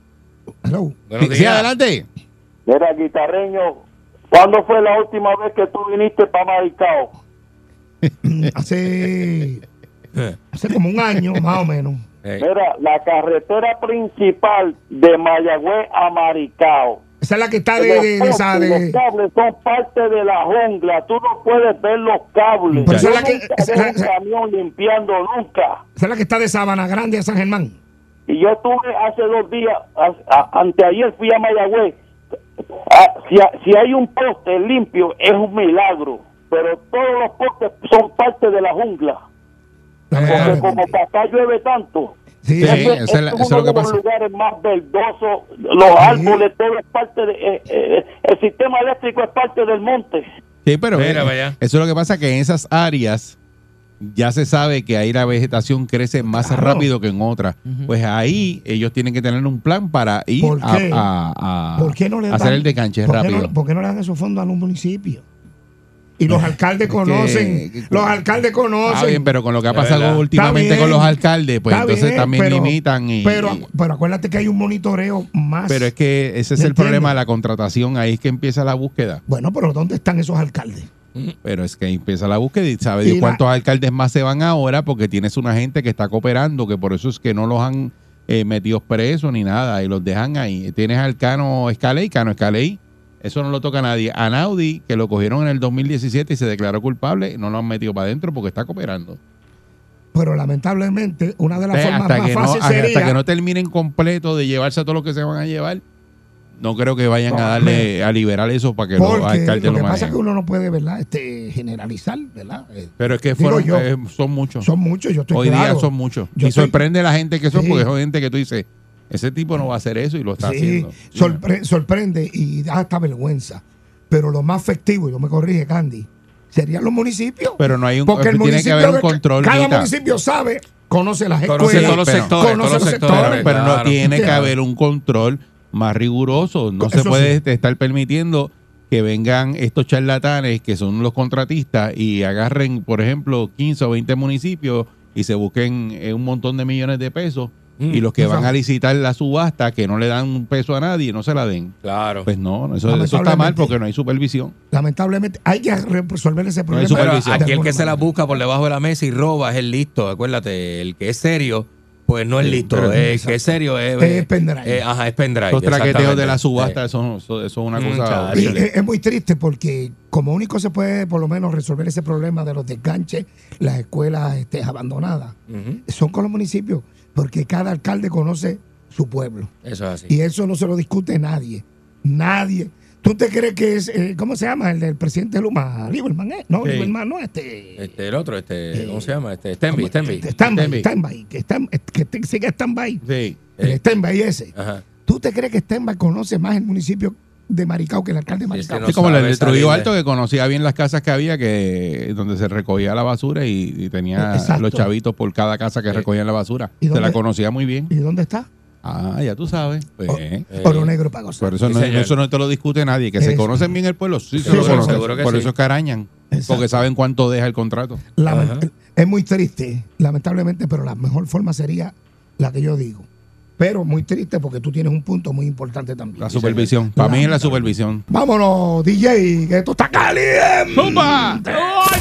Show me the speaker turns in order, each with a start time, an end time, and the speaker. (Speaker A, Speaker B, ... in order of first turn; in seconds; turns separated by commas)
Speaker A: 0.6-0.9, Speaker B: 1.1-1.7, Speaker C: 1.2-2.0, Speaker D: 2.6-7.2, Speaker A: 8.2-9.6, Speaker A: 10.5-12.0, Speaker D: 12.4-17.0, Speaker A: 17.2-19.0, Speaker D: 17.8-25.8, Speaker C: 22.7-23.1, Speaker A: 22.8-24.1, Speaker A: 26.0-27.8, Speaker D: 28.3-31.9, Speaker D: 32.7-39.2, Speaker A: 40.1-41.0, Speaker B: 40.1-40.6, Speaker D: 40.2-50.3, Speaker C: 40.3-40.6, Speaker A: 42.4-43.0, Speaker C: 42.6-44.0, Speaker A: 46.0-46.5, Speaker C: 50.6-53.4, Speaker B: 50.9-51.6, Speaker C: 54.0-63.5, Speaker A: 56.2-56.9, Speaker A: 60.4-61.1, Speaker A: 61.8-65.2, Speaker A: 66.2-69.3, Speaker C: 66.3-68.2, Speaker C: 68.8-73.6, Speaker B: 69.7-70.2, Speaker A: 70.3-75.9, Speaker C: 75.7-79.2, Speaker A: 76.6-77.2, Speaker A: 79.3-80.9, Speaker C: 81.4-99.2, Speaker A: 83.0-83.4, Speaker A: 100.1-103.2, Speaker C: 101.7-105.8, Speaker C: 106.5-110.2, Speaker A: 107.3-107.9, Speaker A: 109.0-113.9, Speaker C: 113.0-114.7, Speaker A: 114.6-116.8, Speaker C: 115.3-121.4, Speaker A: 117.5-117.9, Speaker A: 120.4-134.3, Speaker C: 127.6-129.9, Speaker B: 131.4-134.5, Speaker C: 131.6-154.5, Speaker A: 136.8-137.4, Speaker B: 147.8-148.1, Speaker A: 148.2-148.5, Speaker B: 151.8-152.3, Speaker A: 152.8-153.8, Speaker A: 154.7-158.0, Speaker C: 156.7-157.6, Speaker B: 156.8-166.8, Speaker C: 162.4-163.0, Speaker A: 162.9-164.8, Speaker C: 165.5-168.6, Speaker B: 167.7-168.6, Speaker A: 168.3-175.3, Speaker B: 175.5-175.8, Speaker A: 175.8-179.5, Speaker B: 179.6-180.1, Speaker A: 180.1-187.9, Speaker C: 186.6-186.9, Speaker B: 187.8-190.4, Speaker A: 188.7-189.1, Speaker A: 189.7-193.0, Speaker C: 190.4-190.9, Speaker C: 193.0-193.4, Speaker A: 193.6-194.5, Speaker B: 194.5-194.8, Speaker A: 195.0-199.1, Speaker B: 198.5-199.9, Speaker C: 198.9-207.9, Speaker A: 204.2-204.9, Speaker A: 206.8-207.2, Speaker A: 207.9-208.5, Speaker C: 208.8-210.5, Speaker B: 210.0-210.9, Speaker A: 210.1-211.5, Speaker C: 211.4-218.0, Speaker B: 211.7-212.1, Speaker A: 213.2-213.7, Speaker B: 214.4-215.5, Speaker A: 214.4-215.1, Speaker A: 216.3-216.8, Speaker A: 218.2-231.8, Speaker B: 218.3-218.6, Speaker C: 226.2-228.0, Speaker B: 226.4-226.7, Speaker C: 230.7-231.5